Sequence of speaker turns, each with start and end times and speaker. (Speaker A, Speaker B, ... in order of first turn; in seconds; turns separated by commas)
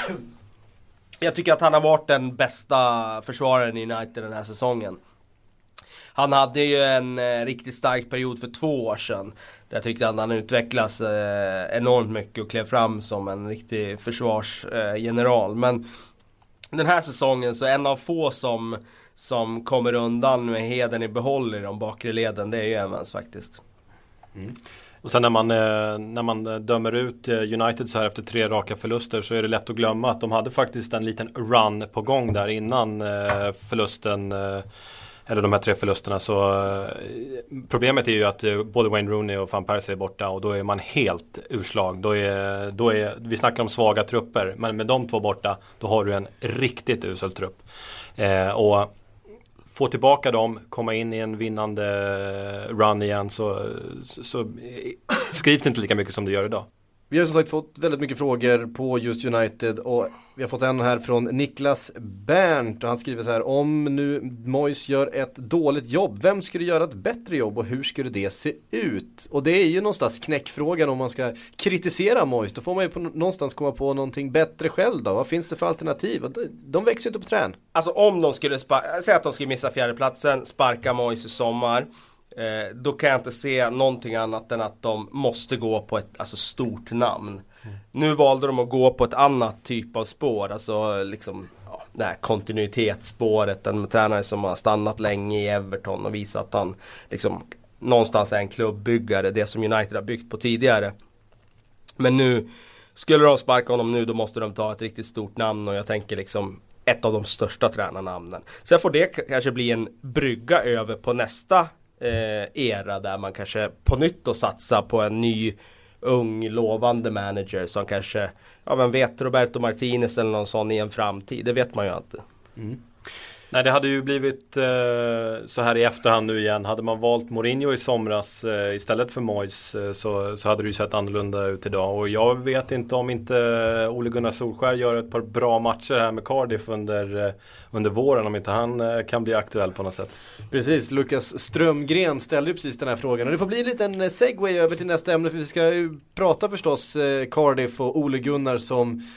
Speaker A: 1.2-5.0, Speaker A: 6.1-15.8, Speaker A: 16.7-23.6, Speaker B: 25.0-34.6, Speaker B: 35.3-47.6, Speaker B: 48.2-48.9, Speaker B: 49.7-56.6, Speaker C: 57.1-77.6, Speaker A: 77.7-100.9, Speaker A: 102.0-122.2, Speaker B: 123.5-140.2, Speaker C: 140.5-149.0